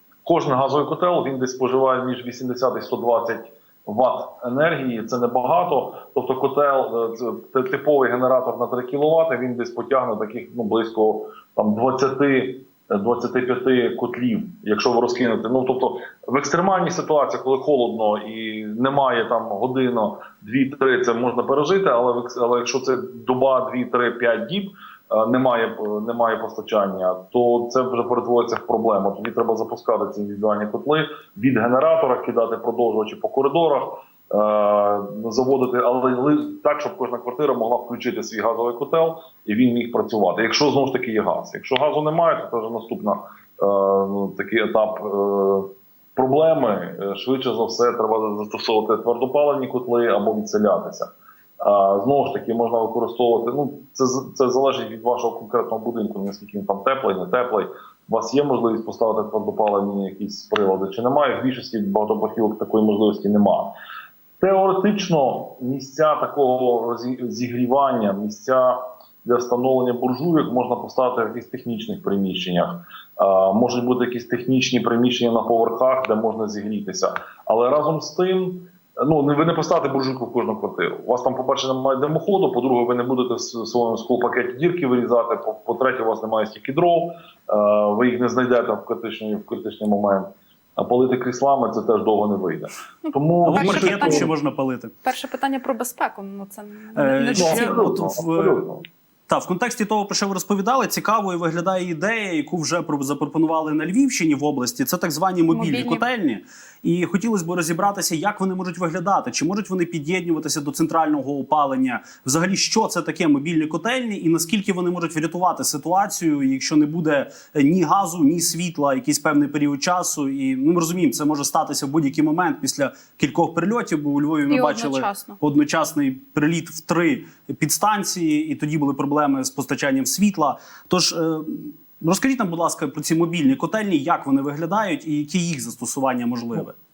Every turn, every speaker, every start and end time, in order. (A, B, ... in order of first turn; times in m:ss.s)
0:00.2-1:03.7 A
1:04.4-1:34.3 A
1:33.0-1:34.3 B
1:33.4-1:34.9 C
1:35.0-1:38.0 B
1:36.9-1:38.6 C
1:37.3-1:38.8 A
1:39.3-2:16.7 C
1:45.5-1:46.0 B
2:04.5-2:05.4 B